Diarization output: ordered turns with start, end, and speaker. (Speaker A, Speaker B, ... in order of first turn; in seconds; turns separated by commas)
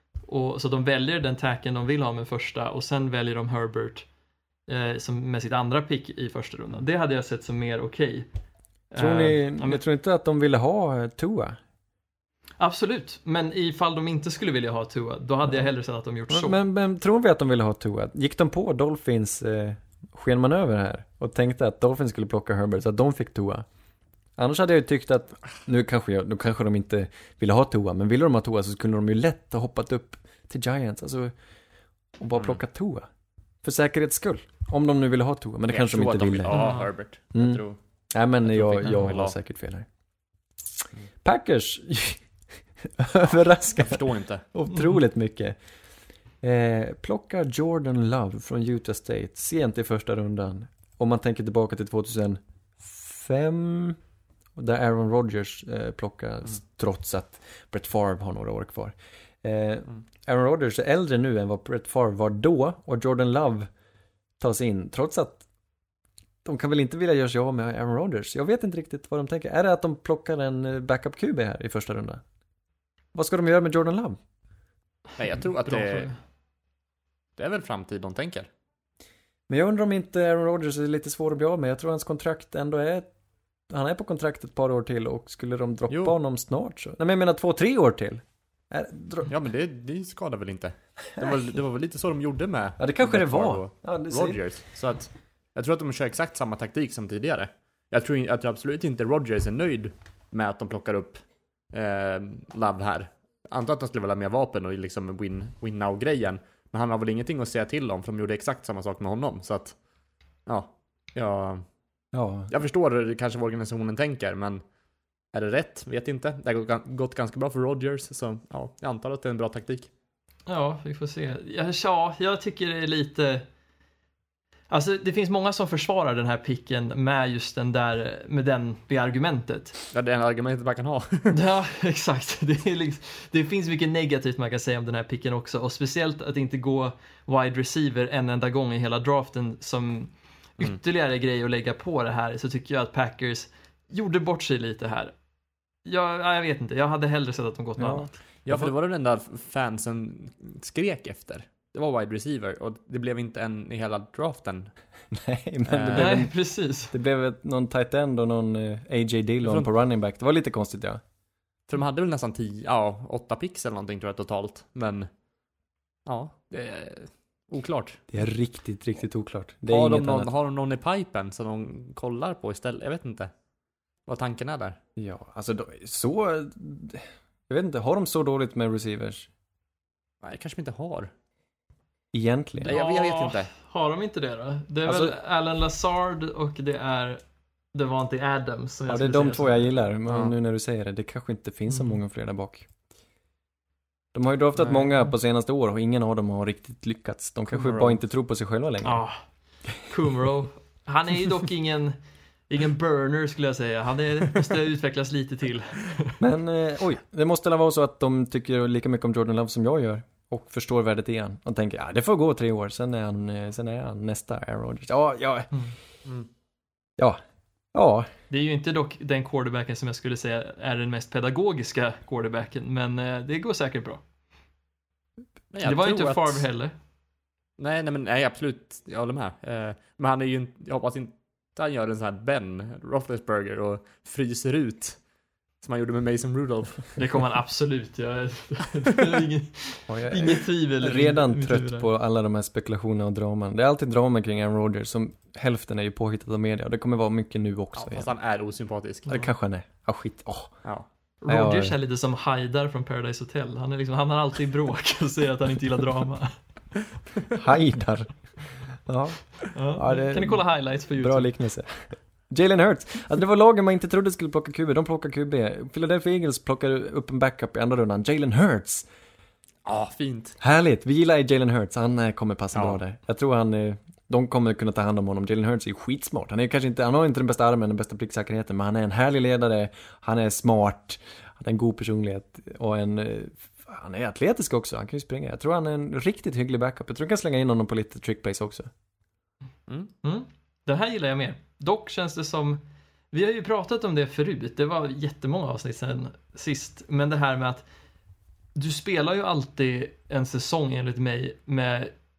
Speaker A: 0.3-4.1, Speaker A: 4.7-8.3, Speaker A: 8.9-9.8, Speaker B: 9.0-11.6, Speaker A: 12.6-16.6, Speaker B: 16.3-23.6, Speaker B: 24.4-31.3, Speaker B: 32.2-33.1, Speaker B: 33.6-36.8, Speaker C: 35.7-37.8, Speaker A: 36.5-36.9, Speaker B: 37.3-39.9, Speaker C: 38.4-39.3, Speaker B: 41.2-42.2, Speaker B: 42.8-44.0, Speaker C: 43.8-44.5, Speaker B: 44.5-45.6, Speaker B: 46.4-54.0, Speaker B: 54.6-63.7, Speaker B: 64.4-65.5, Speaker B: 66.4-72.2, Speaker B: 73.2-74.2, Speaker C: 75.2-76.1, Speaker A: 75.7-76.2, Speaker C: 77.4-78.5, Speaker B: 79.5-83.1, Speaker B: 83.7-89.3, Speaker C: 85.9-86.2, Speaker C: 89.3-109.8, Speaker B: 92.8-94.4, Speaker C: 110.5-111.7, Speaker B: 112.1-112.5, Speaker C: 112.5-114.6, Speaker C: 115.3-119.9, Speaker A: 120.5-123.5, Speaker A: 124.7-129.8, Speaker C: 129.9-131.4, Speaker A: 131.3-145.2, Speaker A: 145.8-148.1, Speaker B: 147.8-148.7, Speaker C: 148.5-154.7, Speaker B: 155.1-161.0, Speaker C: 155.7-156.2, Speaker A: 155.9-156.9, Speaker C: 159.4-159.7, Speaker C: 161.7-165.1, Speaker C: 166.1-168.1, Speaker B: 168.1-170.3, Speaker C: 169.7-173.3, Speaker C: 174.1-174.8, Speaker B: 175.0-179.3, Speaker C: 180.2-181.1, Speaker B: 182.1-182.7, Speaker C: 182.6-183.5, Speaker A: 182.7-187.2, Speaker B: 184.8-185.2, Speaker A: 187.7-189.7, Speaker B: 188.9-192.7, Speaker C: 190.1-190.3, Speaker A: 191.7-192.0, Speaker B: 194.1-199.0, Speaker A: 194.6-195.1, Speaker C: 197.5-198.0, Speaker A: 198.8-202.0, Speaker A: 202.5-206.2, Speaker B: 206.2-215.5, Speaker B: 217.7-218.1, Speaker A: 218.3-224.0, Speaker C: 225.5-226.4, Speaker A: 225.6-226.7, Speaker C: 227.6-235.0, Speaker C: 235.6-237.0, Speaker A: 237.0-241.9, Speaker B: 239.9-248.1, Speaker C: 247.8-249.2, Speaker B: 249.1-250.6, Speaker A: 251.2-256.4, Speaker B: 251.3-251.8, Speaker B: 257.4-268.9, Speaker A: 259.5-261.3, Speaker C: 269.6-270.4, Speaker B: 270.4-288.7, Speaker C: 272.5-272.8, Speaker A: 290.0-297.7, Speaker A: 298.6-301.9